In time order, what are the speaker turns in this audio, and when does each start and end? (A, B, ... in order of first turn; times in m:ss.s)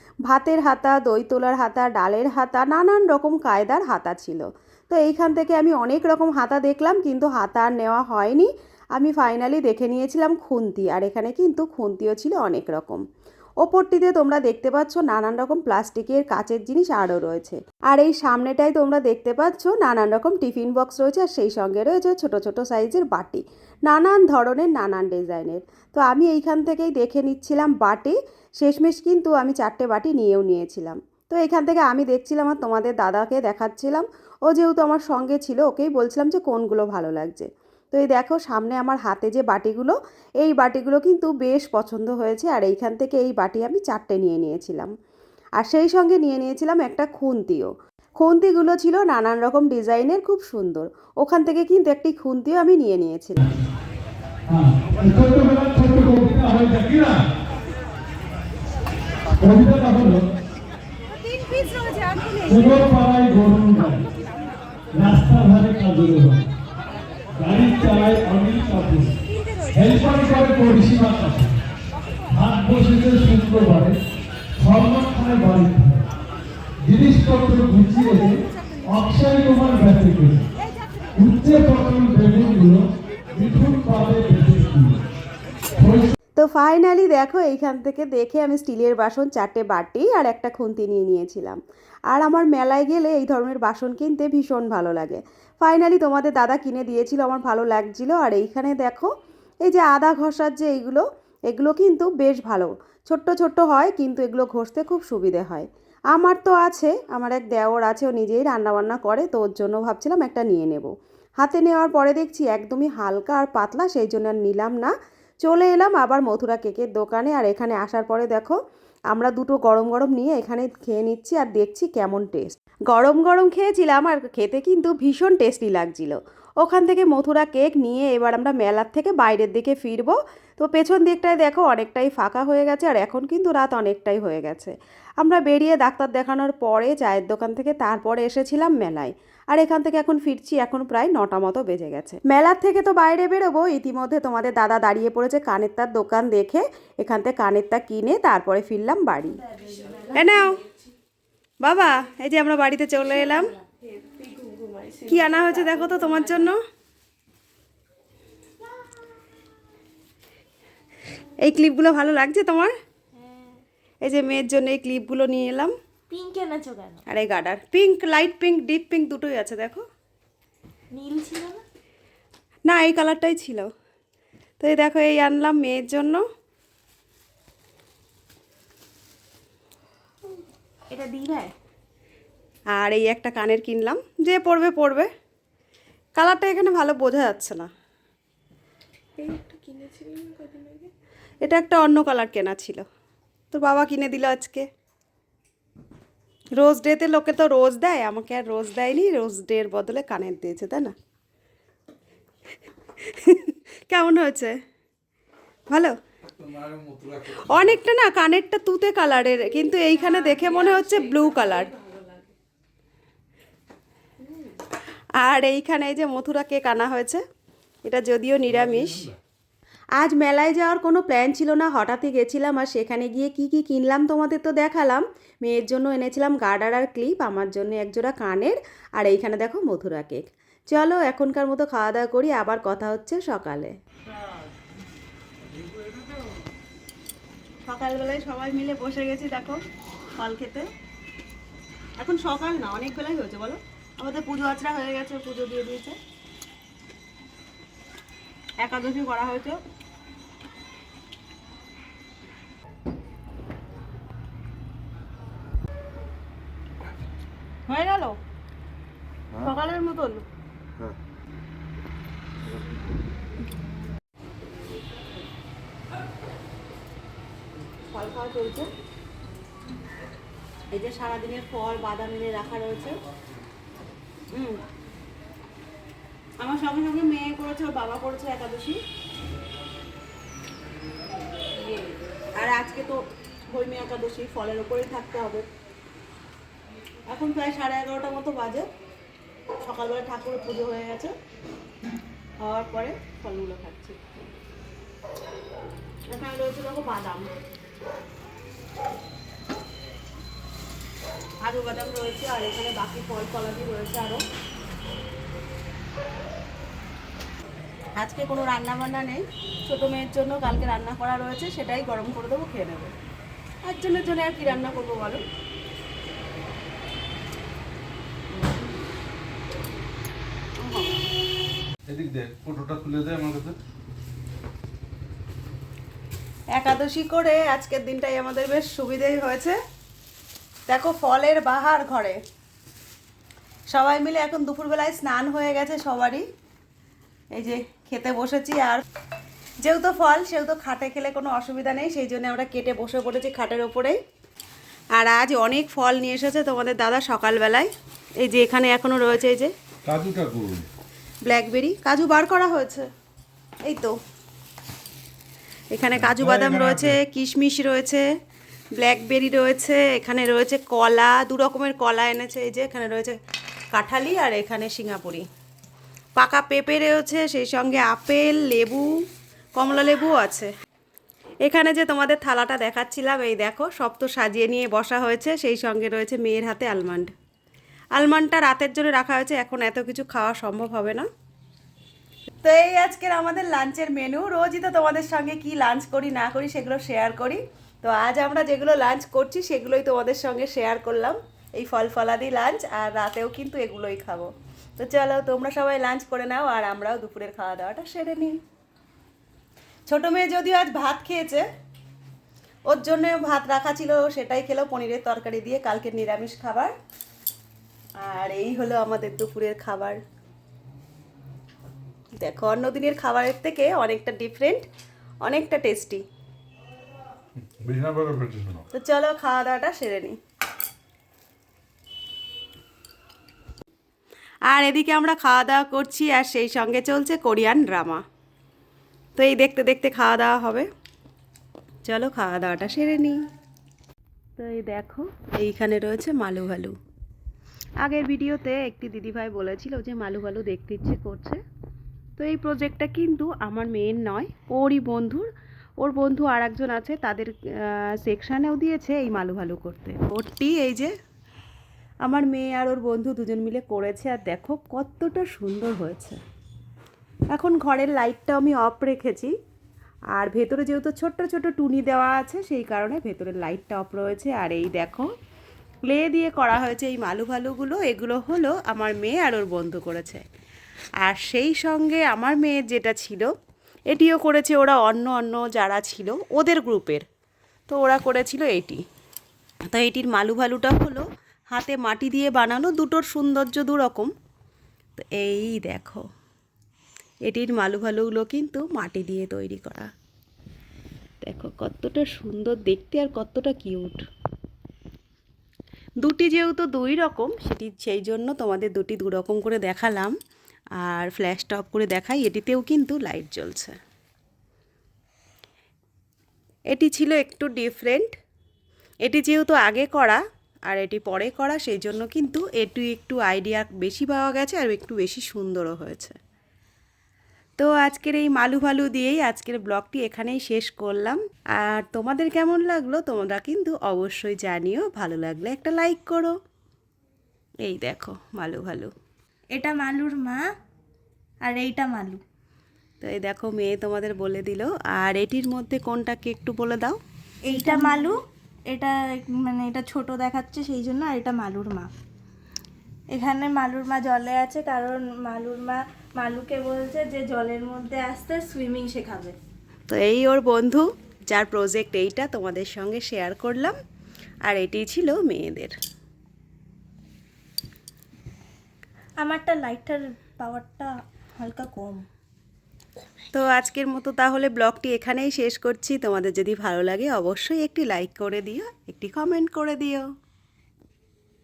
0:00.3-0:13.0 A
0:13.6-0:44.9 A
0:45.6-0:53.4 A
0:54.5-0:57.2 B
0:59.4-1:00.3 B
1:01.4-1:02.5 A
1:02.5-1:04.1 B
1:04.9-1:06.5 B
1:07.4-1:09.2 B
1:09.7-1:11.6 B
1:12.3-1:14.0 B
1:14.6-1:16.1 B
1:16.8-1:20.5 B
1:21.2-1:25.0 B
1:25.8-1:26.2 B
1:26.4-1:31.6 A
1:32.1-1:39.1 A
1:39.6-1:58.6 A
1:59.1-2:29.4 A
2:29.5-2:30.2 C
2:30.1-2:30.6 A
2:31.6-2:33.6 A
2:35.0-2:36.6 A
2:41.4-2:42.7 A
2:44.0-2:45.7 A
2:46.1-2:47.0 C
2:47.1-2:49.8 A
2:50.9-2:51.6 C
2:52.7-2:53.7 A
2:54.6-2:56.2 A
3:00.9-3:01.5 C
3:02.8-3:05.1 A
3:06.2-3:07.7 A
3:09.2-3:10.9 C
3:11.4-3:12.8 A
3:13.5-3:14.7 A
3:16.6-3:20.9 A
3:23.0-3:24.6 A
3:25.7-3:26.0 A
3:26.4-3:27.7 D
3:27.3-3:31.8 A
3:35.2-3:37.2 A
3:37.8-3:39.1 A
3:40.0-3:53.7 A
3:57.7-3:59.6 A
4:00.2-4:00.7 A
4:02.0-4:06.0 A
4:08.6-4:09.6 A
4:17.7-4:18.2 A
4:19.4-4:20.2 A
4:27.9-4:28.7 A
4:30.7-4:33.0 A
4:34.3-4:34.6 A
4:36.4-4:38.8 A
4:41.6-4:45.5 A
4:47.1-4:48.7 A
4:49.6-4:51.1 A
4:52.4-4:54.1 A
4:56.1-4:57.3 A
5:01.4-5:04.2 A
5:08.0-5:12.9 A
5:13.6-5:15.2 A
5:20.6-5:21.1 A
5:21.9-5:23.6 D
5:26.6-5:29.6 A
5:30.7-5:32.2 A
5:33.7-5:36.3 A
5:37.3-5:38.8 A
5:39.6-5:44.0 A
5:45.0-5:49.5 A
5:49.8-5:50.7 D
5:51.2-5:52.9 A
5:53.6-5:54.0 A
5:55.7-5:58.1 A
5:56.0-5:57.0 D
5:58.8-6:03.2 A
6:03.7-6:05.3 A
6:06.2-6:08.9 A
6:09.6-6:10.5 A
6:11.4-6:17.1 A
6:18.0-6:21.1 A
6:22.4-6:38.4 A
6:39.9-6:41.5 A
6:42.7-6:46.8 A
6:48.0-6:50.0 A
6:52.2-6:54.7 A
6:55.2-6:56.0 A
6:57.4-6:58.6 D
6:58.7-7:00.2 A
7:04.5-7:08.0 A
7:09.2-7:10.7 A
7:11.9-7:13.2 A
7:14.4-7:16.8 A
7:17.8-7:21.4 A
7:22.2-7:25.3 A
7:25.8-7:30.9 A
7:32.0-7:36.2 A
7:37.3-7:39.3 A
7:40.1-7:45.1 A
7:45.8-7:50.2 A
7:51.0-7:53.3 A
7:53.9-7:57.0 A
7:57.7-7:58.8 A
7:59.7-8:04.1 A
8:05.0-8:06.0 A
8:07.3-8:09.9 A
8:11.2-8:14.1 A
8:16.0-8:20.1 A
8:20.8-8:23.8 A
8:26.7-8:28.1 A
8:29.0-8:36.2 A
8:37.6-8:46.4 A
8:47.6-8:48.9 A
8:49.5-8:50.4 C
8:51.4-8:52.2 C
8:53.0-8:57.0 A
8:57.4-8:58.2 C
8:57.5-8:57.9 A
8:58.7-9:01.9 C
9:03.1-9:09.4 C
9:09.9-9:13.8 A
9:14.4-9:15.8 A
9:19.2-9:22.1 C
9:23.3-9:30.1 A